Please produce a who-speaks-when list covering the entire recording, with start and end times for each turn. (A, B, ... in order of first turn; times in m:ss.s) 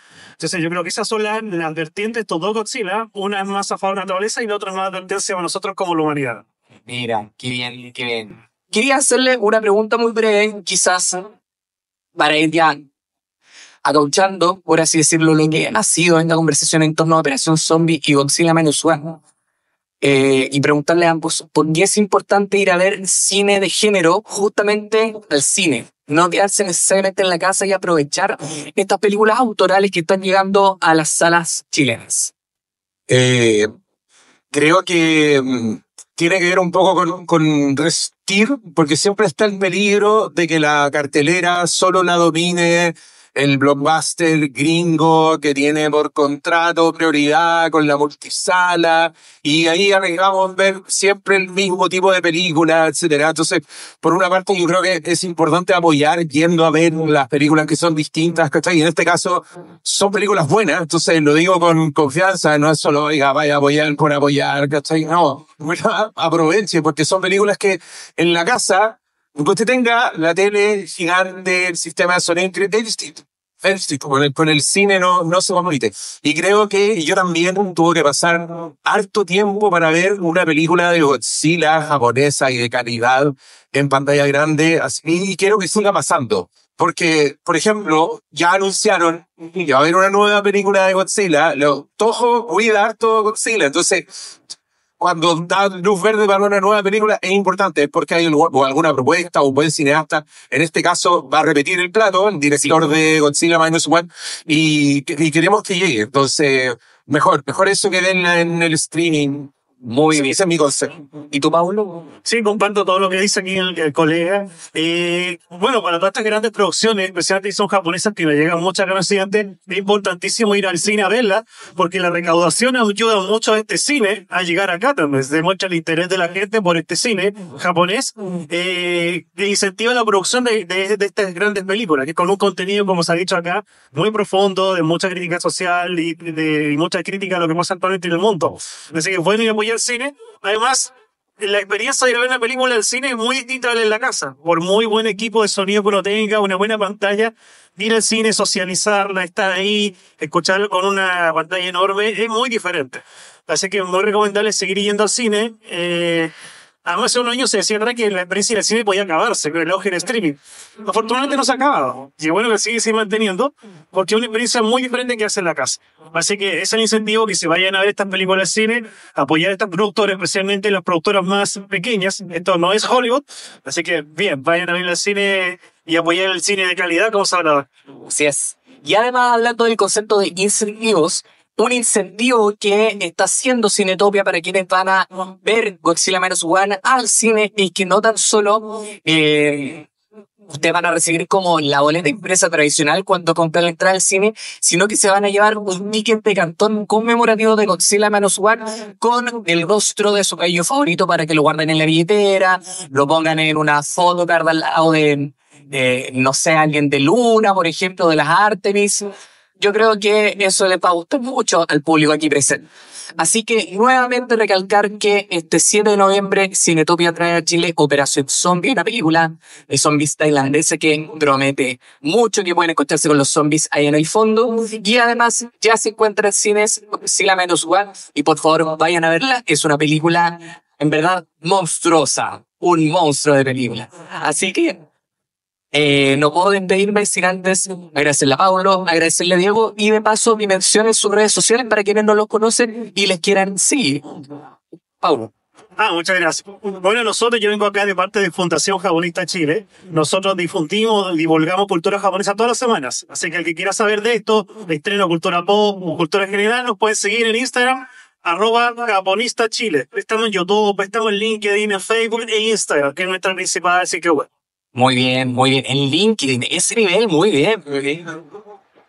0:00.4-0:06.4 A
0:06.9-0:11.3 B
0:12.1-0:12.8 B
0:13.8-0:19.2 B
0:20.0-0:32.3 B
0:33.1-0:33.7 C
0:34.5-1:34.1 C
1:35.0-1:49.5 C
1:49.8-1:50.4 B
1:50.1-1:51.0 C
1:51.3-1:52.0 B
1:52.2-2:36.3 A
2:36.8-2:57.6 A
2:58.0-3:09.9 B
3:10.5-3:32.6 B
3:33.2-3:54.8 B
3:55.7-4:04.0 B
4:05.0-4:05.3 B
4:05.8-4:24.3 A
4:24.7-4:28.2 B